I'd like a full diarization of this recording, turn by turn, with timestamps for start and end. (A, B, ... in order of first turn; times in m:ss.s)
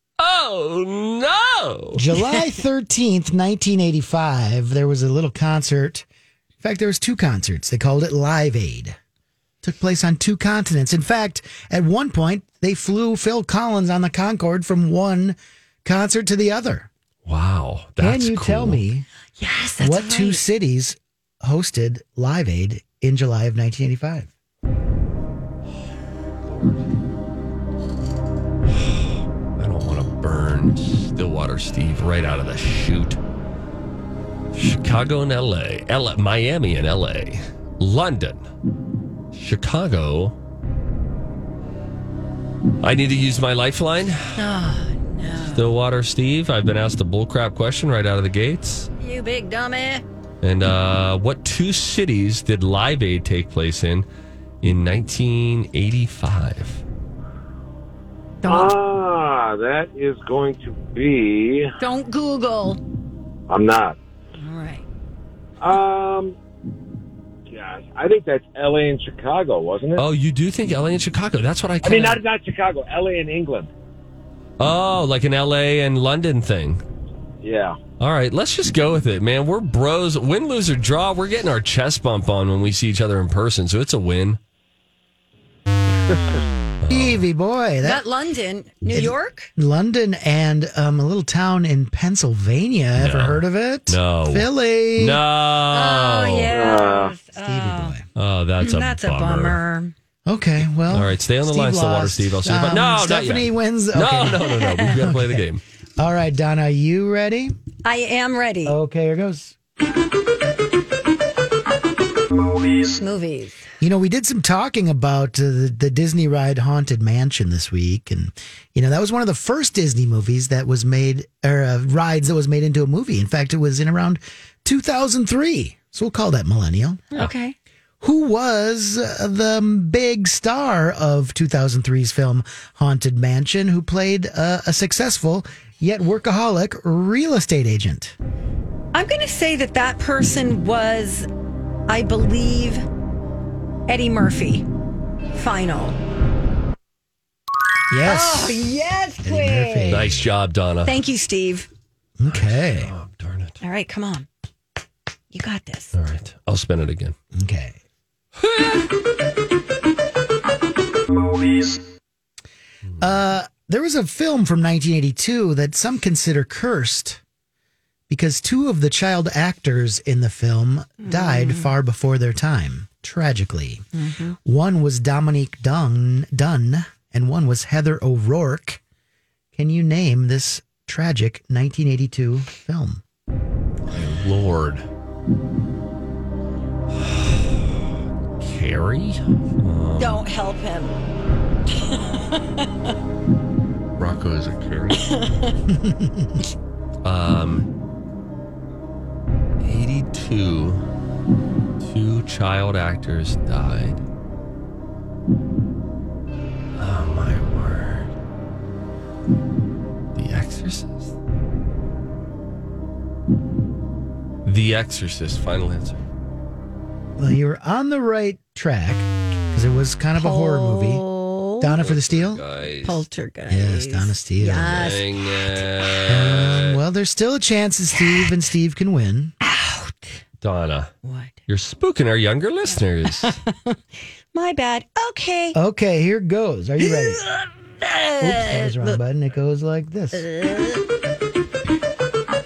0:00.2-0:02.0 A
0:02.0-0:06.1 B
0:06.6-0:09.0 B
0:09.6-0:16.9 B
0:17.3-0:18.8 A
0:18.0-0:19.1 B
0:19.4-0:20.4 C
0:19.8-0:24.3 B
0:26.4-0:26.8 A
0:28.7-0:33.2 A
0:34.5-0:38.5 A
0:39.3-0:40.4 A
0:42.8-0:44.4 A
0:44.4-0:45.7 C
0:45.5-0:48.9 A
0:49.0-0:50.0 C
0:50.4-0:54.1 A
0:54.6-0:56.8 A
0:58.4-0:58.8 C
0:58.4-1:01.7 D
1:01.8-1:02.8 C
1:03.5-1:04.0 D
1:04.4-1:04.9 C
1:05.6-1:06.4 D
1:07.5-1:10.0 D
1:10.0-1:12.2 A
1:11.8-1:13.7 D
1:14.6-1:16.8 A
1:17.4-1:17.8 D
1:18.0-1:24.4 A
1:26.1-1:26.4 D
1:26.8-1:27.2 A
1:26.9-1:28.0 B
1:27.8-1:29.5 C
1:28.9-1:35.2 B
1:33.0-1:36.6 A
1:35.7-1:38.0 C
1:36.5-1:37.2 D
1:37.4-1:38.0 B
1:38.2-1:39.6 A
1:38.6-1:39.9 C
1:40.3-1:45.4 B
1:40.9-1:45.6 A
1:46.0-1:47.5 B
1:47.8-1:48.8 C
1:48.6-1:49.6 B
1:52.9-1:53.6 C
1:53.8-2:07.2 B
2:07.1-2:07.6 C
2:08.0-2:18.1 B
2:18.9-2:21.3 C
2:21.9-2:22.8 C
2:23.9-2:24.6 C
2:25.3-2:26.0 C
2:27.9-2:30.3 B
2:28.0-2:30.0 C
2:29.9-2:31.0 A
2:30.9-2:31.7 C
2:32.2-2:32.9 B
2:32.3-2:33.6 A
2:33.6-2:34.3 C
2:35.3-2:36.0 C
2:35.9-2:37.1 A
2:37.3-2:37.8 B
2:38.4-2:38.8 A
2:43.0-2:47.2 B
2:48.1-2:53.8 B
2:51.0-2:51.7 C
2:53.9-2:54.4 C
2:54.4-2:58.8 B
2:59.6-3:03.0 B
3:03.9-3:04.9 A
3:07.0-3:07.6 A
3:08.4-3:10.2 A
3:10.0-3:11.0 C
3:11.7-3:12.7 C
3:14.0-3:15.0 A
3:14.9-3:15.6 C
3:15.7-3:16.4 B
3:17.0-3:17.6 A
3:19.6-3:20.8 A
3:21.8-3:24.0 A
3:26.8-3:28.1 A
3:30.1-3:31.1 A
3:34.4-3:36.0 A
3:37.2-3:41.0 B
3:40.2-3:41.8 C
3:41.6-3:42.4 B
3:41.8-3:43.0 A
3:42.8-3:45.4 C
3:43.5-3:44.9 B
3:44.7-3:46.8 A
3:46.1-3:49.3 B
3:47.9-3:48.3 C
3:49.4-3:50.2 C
3:50.4-3:50.9 A
3:51.0-3:51.4 C
3:51.5-3:53.4 A
3:53.1-3:53.8 C
3:54.3-3:55.6 C
3:55.5-3:57.2 B
3:56.8-3:59.0 C
3:58.2-4:00.3 B
4:00.1-4:00.8 C